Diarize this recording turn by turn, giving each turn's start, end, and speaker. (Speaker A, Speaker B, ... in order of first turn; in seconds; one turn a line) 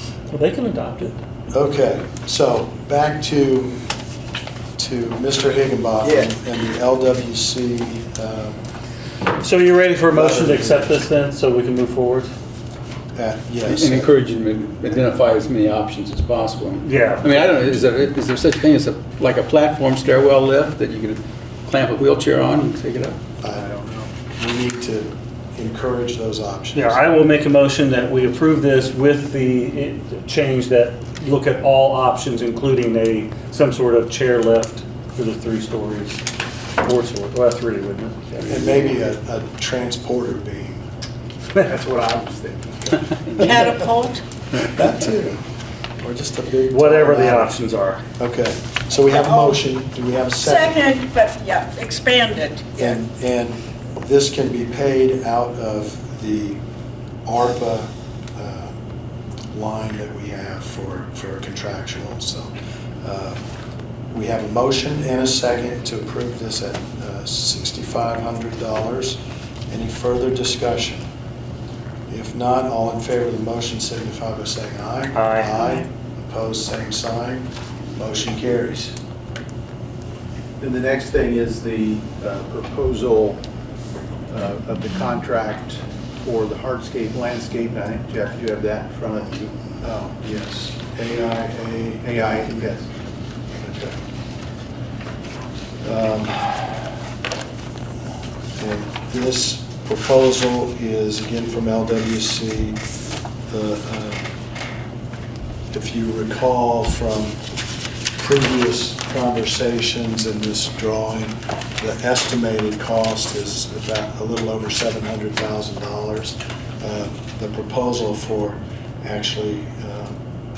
Speaker A: 0.3-1.2
Speaker B: 1.5-3.8
Speaker B: 4.8-8.6
Speaker C: 6.0-6.3
Speaker A: 9.3-12.3
Speaker B: 10.1-11.0
Speaker B: 13.2-14.1
Speaker D: 13.7-23.2
Speaker A: 16.8-17.5
Speaker B: 23.4-27.0
Speaker C: 23.5-24.0
Speaker A: 26.7-36.2
Speaker A: 36.8-38.8
Speaker B: 38.4-40.8
Speaker C: 41.6-43.1
Speaker E: 43.4-44.2
Speaker B: 43.4-43.8
Speaker B: 44.6-45.4
Speaker B: 46.0-47.6
Speaker A: 46.7-48.0
Speaker B: 48.2-50.9
Speaker E: 49.1-49.5
Speaker E: 50.4-53.0
Speaker B: 52.8-56.6
Speaker B: 57.3-58.7
Speaker B: 59.5-62.5
Speaker B: 63.0-63.4
Speaker B: 64.1-71.0
Speaker B: 72.1-79.0
Speaker A: 75.1-75.8
Speaker C: 80.6-83.4
Speaker C: 84.3-89.6
Speaker B: 89.8-92.7
Speaker C: 92.0-92.9
Speaker B: 93.6-94.0
Speaker B: 95.8-96.8
Speaker B: 98.6-102.8
Speaker B: 103.5-104.3
Speaker B: 105.7-107.4
Speaker B: 108.2-120.2